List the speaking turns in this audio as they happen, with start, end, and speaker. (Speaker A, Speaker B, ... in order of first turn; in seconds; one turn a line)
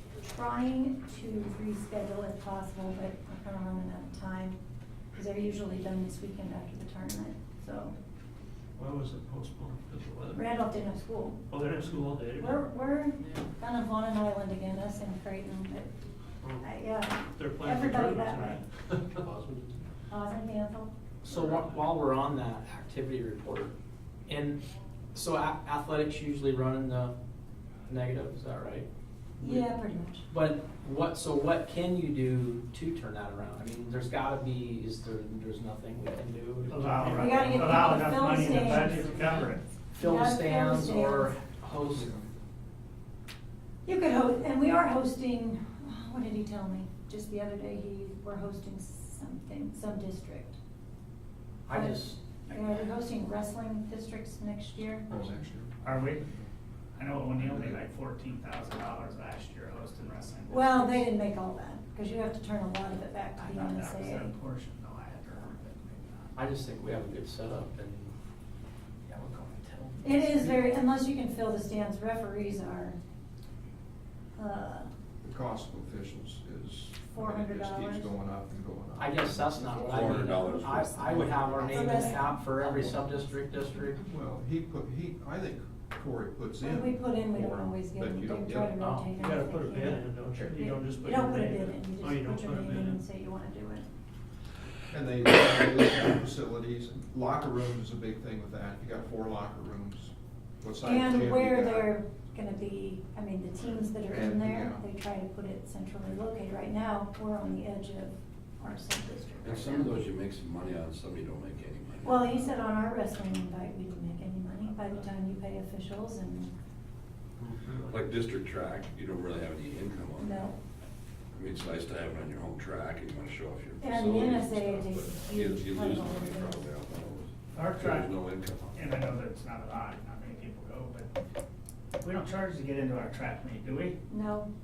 Speaker A: 0.2-4.6
Speaker A: 5.1-7.9
Speaker B: 8.8-10.5
Speaker A: 10.3-11.4
Speaker B: 11.5-12.6
Speaker A: 12.3-15.9
Speaker B: 16.4-16.7
Speaker A: 16.6-18.6
Speaker B: 17.3-19.3
Speaker A: 20.1-20.9
Speaker C: 21.2-23.7
Speaker B: 21.3-21.6
Speaker C: 24.3-24.6
Speaker C: 25.1-27.1
Speaker C: 27.9-28.9
Speaker A: 29.4-30.3
Speaker C: 30.3-36.9
Speaker B: 36.7-37.9
Speaker D: 36.7-39.7
Speaker A: 37.0-41.5
Speaker C: 40.0-42.1
Speaker E: 41.9-42.3
Speaker A: 43.8-50.6
Speaker C: 51.7-52.2
Speaker A: 51.7-55.0
Speaker D: 52.5-52.9
Speaker E: 55.1-56.5
Speaker D: 55.8-56.2
Speaker D: 57.0-61.1
Speaker E: 57.3-57.8
Speaker A: 60.5-64.3
Speaker D: 63.4-66.3
Speaker C: 66.3-68.1
Speaker A: 70.0-73.0
Speaker C: 70.3-70.6
Speaker A: 74.4-74.9
Speaker E: 75.2-79.5
Speaker A: 77.1-78.1
Speaker C: 79.0-84.0
Speaker F: 79.5-81.5
Speaker A: 80.4-80.6
Speaker A: 81.6-82.5
Speaker E: 82.6-82.9
Speaker E: 83.6-88.8
Speaker A: 86.6-93.9
Speaker C: 88.8-89.1
Speaker B: 89.2-93.0
Speaker E: 94.9-101.9
Speaker A: 100.8-110.0
Speaker E: 104.0-104.8
Speaker F: 109.4-112.3
Speaker A: 112.0-116.5
Speaker F: 117.8-120.5
Speaker A: 120.2-120.5
Speaker F: 121.3-128.8
Speaker A: 123.8-126.7
Speaker D: 127.5-128.2
Speaker D: 128.7-131.1
Speaker D: 132.0-134.0
Speaker A: 134.1-134.5